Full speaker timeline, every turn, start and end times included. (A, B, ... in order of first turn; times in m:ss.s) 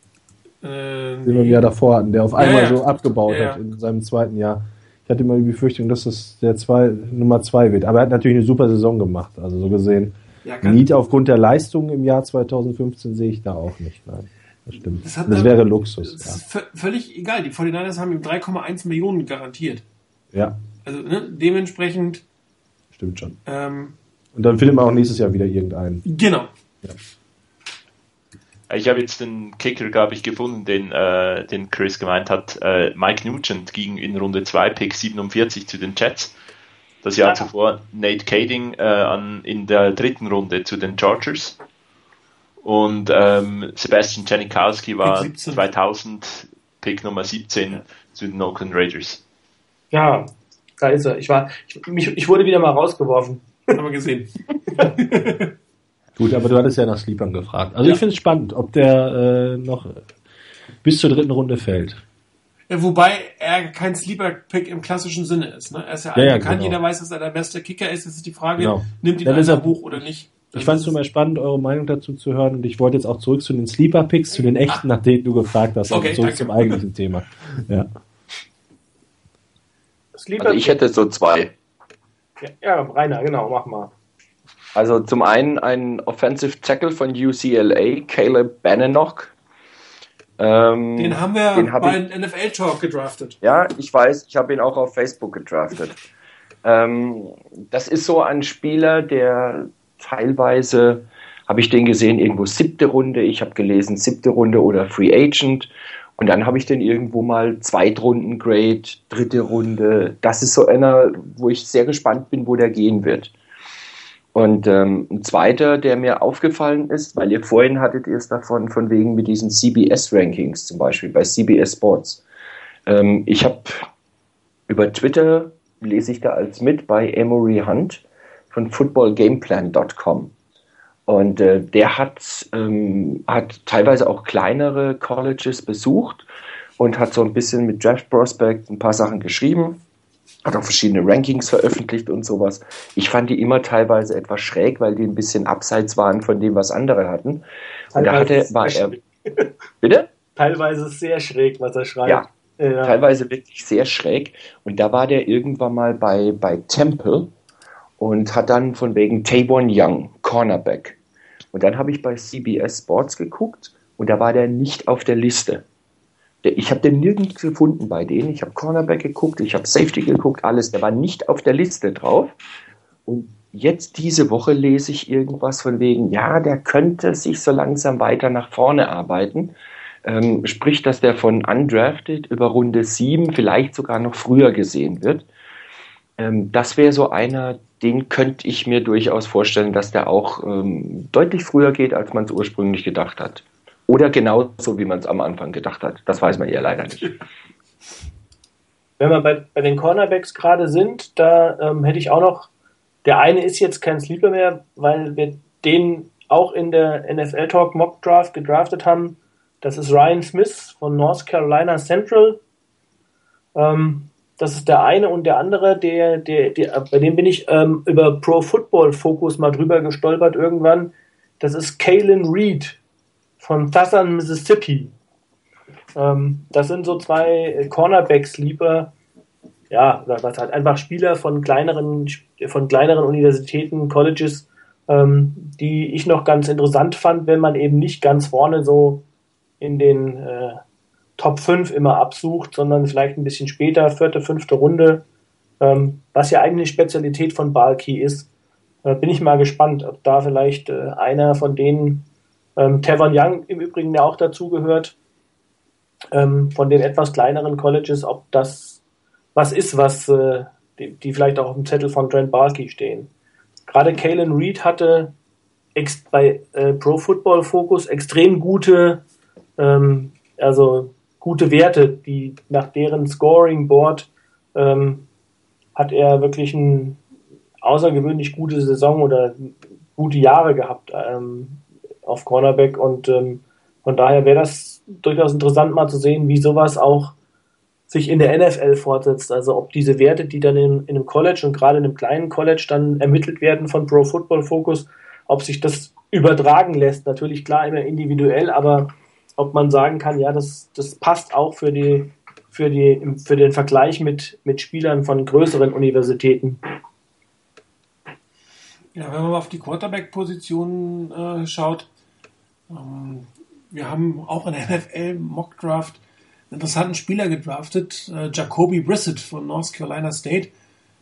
0:00.6-0:01.6 A
0:01.2-0:16.4 B
0:02.3-0:03.6 A
0:10.4-0:10.8 A
0:15.0-0:19.8 A
0:20.8-0:22.2 A
0:22.9-0:23.4 B
0:23.4-0:24.0 A
0:24.3-0:26.0 B
0:26.0-0:26.5 A
0:28.7-0:36.3 C
0:37.0-0:41.6 C
0:42.6-0:49.2 C
0:45.0-0:45.7 A
0:49.9-0:50.3 D
0:50.8-0:53.8 D
0:53.7-0:55.5 A
0:56.2-1:00.0 B
1:00.8-1:02.0 B
1:02.7-1:11.0 A
1:06.1-1:06.8 B
1:08.6-1:17.9 B
1:15.9-1:16.8 A
1:20.2-1:20.8 D
1:20.4-1:21.5 E
1:22.4-1:23.9 D
1:24.7-1:29.3 E
1:30.4-1:32.0 E
1:30.9-1:33.4 A
1:33.4-1:35.9 E
1:36.6-1:53.3 E
1:54.3-2:02.2 E
2:02.8-2:03.7 E
2:04.7-2:10.3 E
2:11.1-2:16.2 E
2:16.8-2:19.8 E
2:20.4-2:27.4 E
2:27.9-2:28.9 E
2:27.9-2:29.5 D
2:29.8-2:30.1 E
2:30.3-2:33.0 D
2:32.8-2:37.3 E
2:38.0-2:41.0 E
2:41.5-2:45.6 E
2:46.4-2:52.3 E
2:53.0-2:59.5 E
3:00.0-3:05.3 E
3:06.2-3:17.2 E
3:19.0-3:22.5 D
3:23.0-3:32.4 D
3:33.5-3:42.8 D
3:43.4-3:44.9 D
3:45.9-3:48.9 D
3:49.7-3:59.0 D
3:59.6-4:00.6 D
4:01.2-4:05.0 D
4:05.6-4:08.3 D
4:08.8-4:14.9 D
4:16.1-4:18.8 D
4:19.3-4:23.1 D
4:23.7-4:25.1 D
4:25.7-4:29.0 D
4:29.6-4:35.1 D
4:35.8-4:37.0 D
4:37.6-4:47.1 D
4:47.9-5:06.6 D
5:08.9-5:11.9 A
5:12.7-5:20.5 A